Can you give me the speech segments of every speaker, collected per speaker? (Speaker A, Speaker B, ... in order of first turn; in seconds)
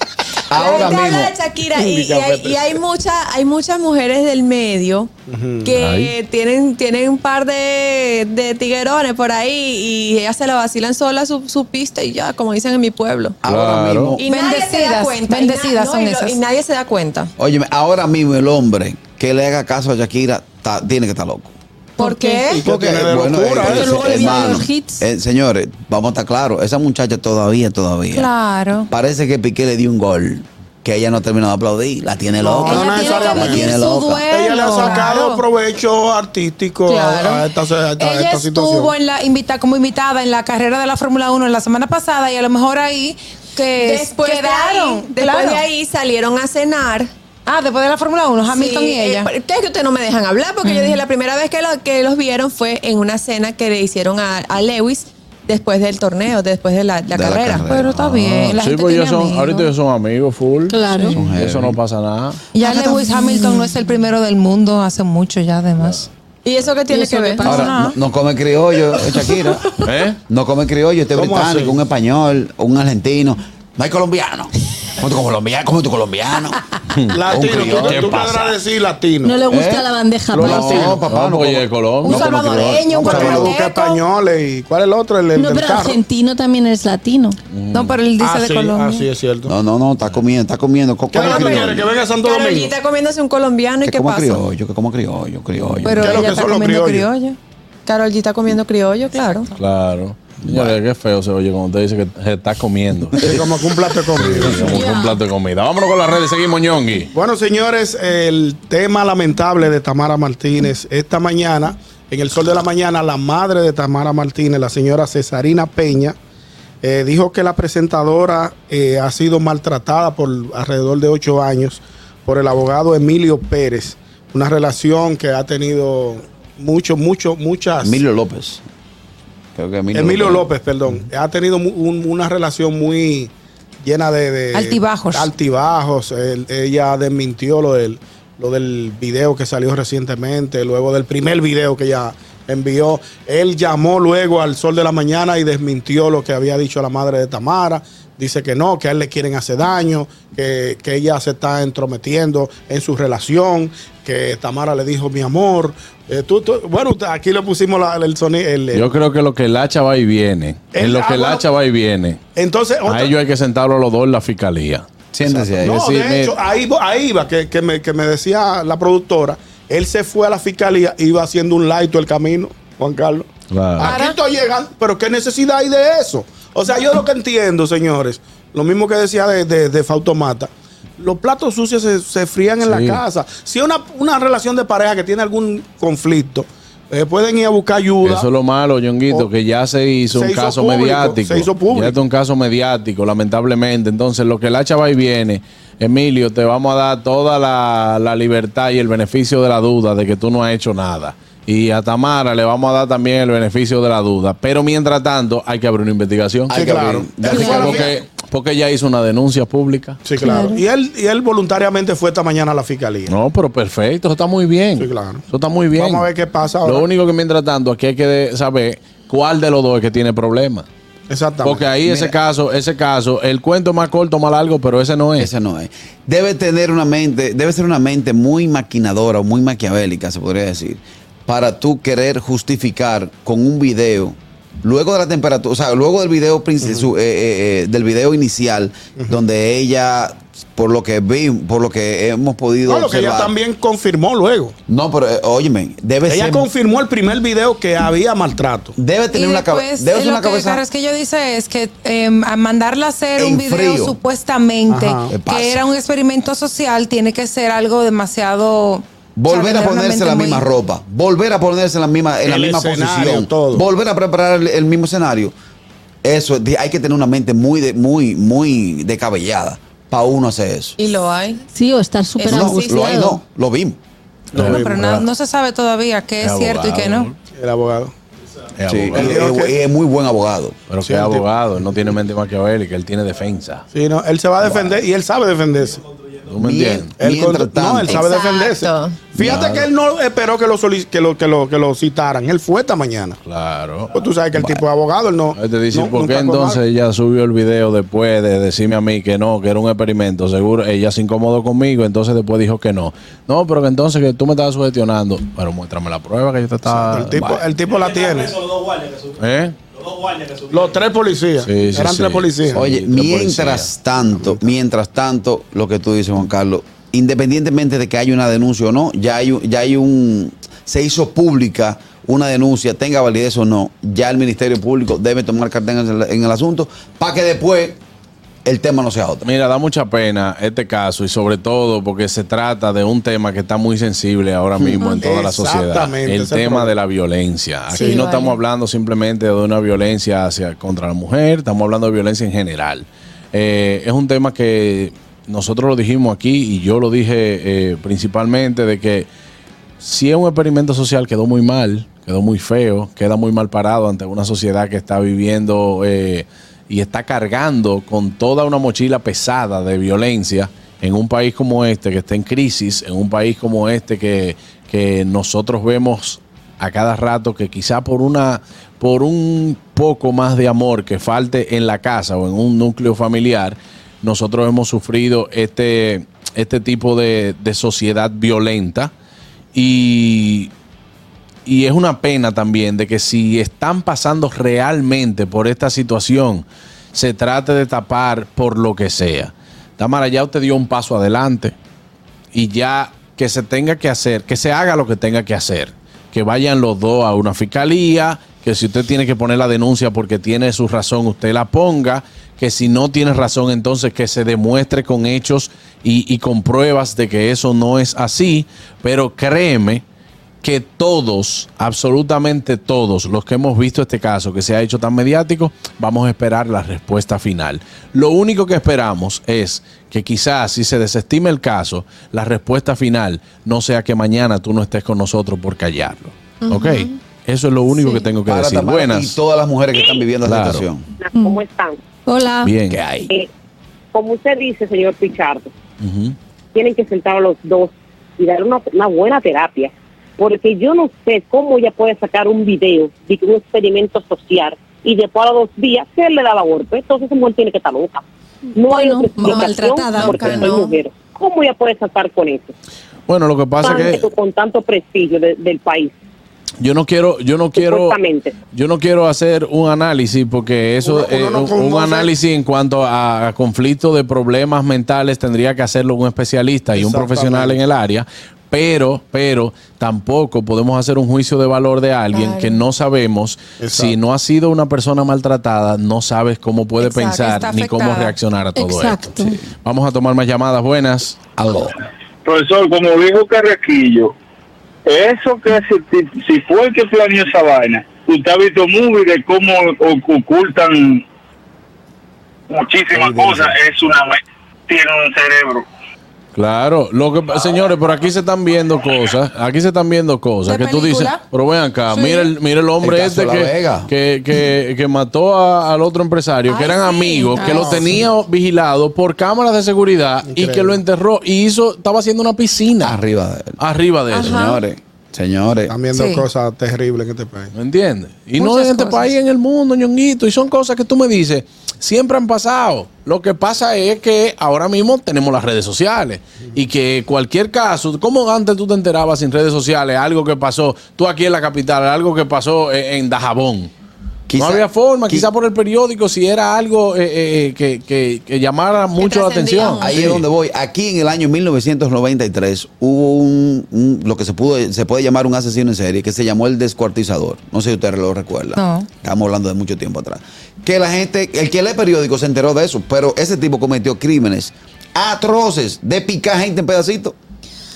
Speaker A: 0.5-1.3, 13.4-14.2, 17.4-21.5, 22.6-28.3, 28.9-34.3, 57.1-58.3, 61.1-61.8, 67.5-69.7, 70.3-76.6, 77.3-78.6, 79.5-83.6, 89.5-91.9, 93.8-96.4, 100.4-100.8, 127.8-128.6, 129.6-130.5, 165.1-165.8, 206.5-207.9, 221.8-222.2, 225.2-243.3, 244.7-246.5, 248.8-250.6, 253.2-254.0, 255.1-255.6, 259.2-265.3, 266.0-270.8, 272.2-273.8, 278.6-280.6, 284.4-284.8, 286.4-288.1, 289.2-289.5, 294.4-294.6, 307.1-307.4, 312.5-327.8, 328.4-329.3, 334.6-334.8, 428.3-430.9, 481.4-481.8, 492.9-493.6, 502.8-503.9, 512.8-513.6, 514.2-515.8, 534.3-535.3, 539.8-557.2
Speaker B: 0.5-5.1, 5.6-13.4, 14.2-17.3, 22.0-22.6, 43.7-47.1, 48.5-57.7, 62.6-64.0, 66.5-67.6, 91.2-94.4, 97.9-99.5, 270.8-271.4, 272.2-273.1, 287.9-289.1, 334.8-335.1, 337.7-338.4, 426.4-426.9, 449.2-450.8, 472.1-472.6, 476.8-477.3, 514.1-514.6, 539.0-540.0
Speaker C: 1.7-2.8, 5.3-5.8, 22.4-24.0, 32.4-39.0, 71.2-71.8, 77.1-79.5, 80.3-80.9, 82.8-86.0, 88.2-89.5, 91.1-92.8, 95.9-97.1, 103.2-104.8, 107.1-116.2, 116.8-128.0, 129.9-158.9, 160.7-161.5, 162.4-163.2, 165.2-173.3, 173.8-188.3, 190.1-192.0, 206.5-207.9, 210.1-213.1, 214.8-215.2, 215.8-216.9, 221.1-221.7, 242.7-244.5, 246.1-248.8, 254.7-255.1, 262.2-263.7, 274.3-275.1, 277.3-277.9, 278.9-279.6, 280.8-281.3, 283.7-285.8, 287.0-293.2, 293.9-296.6, 306.8-308.4, 310.5-312.6, 314.1-314.4, 335.0-336.8, 460.8-462.1, 466.7-467.6, 473.6-474.0, 507.3-508.1, 510.2-510.8, 515.7-517.5
Speaker D: 5.8-6.1, 13.4-14.2, 58.0-62.4, 65.8-66.0, 69.8-70.2, 76.9-77.3, 77.8-78.2, 80.4-82.4, 87.5-88.0, 95.6-96.0, 99.6-103.4, 104.1-107.1, 158.7-162.2, 162.9-164.9, 165.6-166.3, 173.5-174.0, 182.6-183.0, 188.0-206.7, 207.3-210.0, 213.1-216.1, 216.6-220.7, 221.4-225.3, 274.3-275.1, 276.2-277.1, 278.6-279.2, 280.7-283.6, 286.3-286.9, 289.2-289.7, 293.2-293.9, 295.3-307.3, 309.2-309.6, 311.4-313.7, 329.2-349.1, 349.8-378.9, 379.5-380.5, 381.4-391.6, 392.3-409.8, 410.4-429.2, 430.2-430.7, 432.4-433.1, 435.8-436.2, 453.1-454.1, 456.6-458.0, 458.5-481.2, 496.4-513.0, 513.6-514.5, 517.5-533.7, 534.4-540.3
Speaker E: 14.3-16.4, 22.0-22.4, 28.1-28.9, 32.6-35.4, 36.9-45.6, 47.5-49.3, 50.6-51.0, 57.7-59.7, 62.5-66.1, 66.9-68.0, 82.0-84.0, 87.7-89.1, 95.8-97.4, 134.5-135.3, 173.8-174.2, 249.1-260.5, 274.4-277.1, 477.1-478.2, 500.4-501.2, 501.9-502.3, 506.4-508.0, 515.9-516.3, 518.4-519.1, 548.6-548.9
Speaker F: 23.6-25.1, 60.7-61.2, 67.1-67.6, 79.2-81.0, 85.3-87.4, 104.6-105.2, 210.2-210.6, 271.5-273.2, 431.1-431.4, 432.1-432.5, 448.6-450.7, 478.6-479.4
Speaker G: 431.0-431.8, 433.9-435.5, 436.5-448.0, 448.6-452.5, 453.6-455.9, 457.6-458.4
Speaker H: 482.3-484.1, 484.9-491.0, 492.5-494.1, 494.7-495.6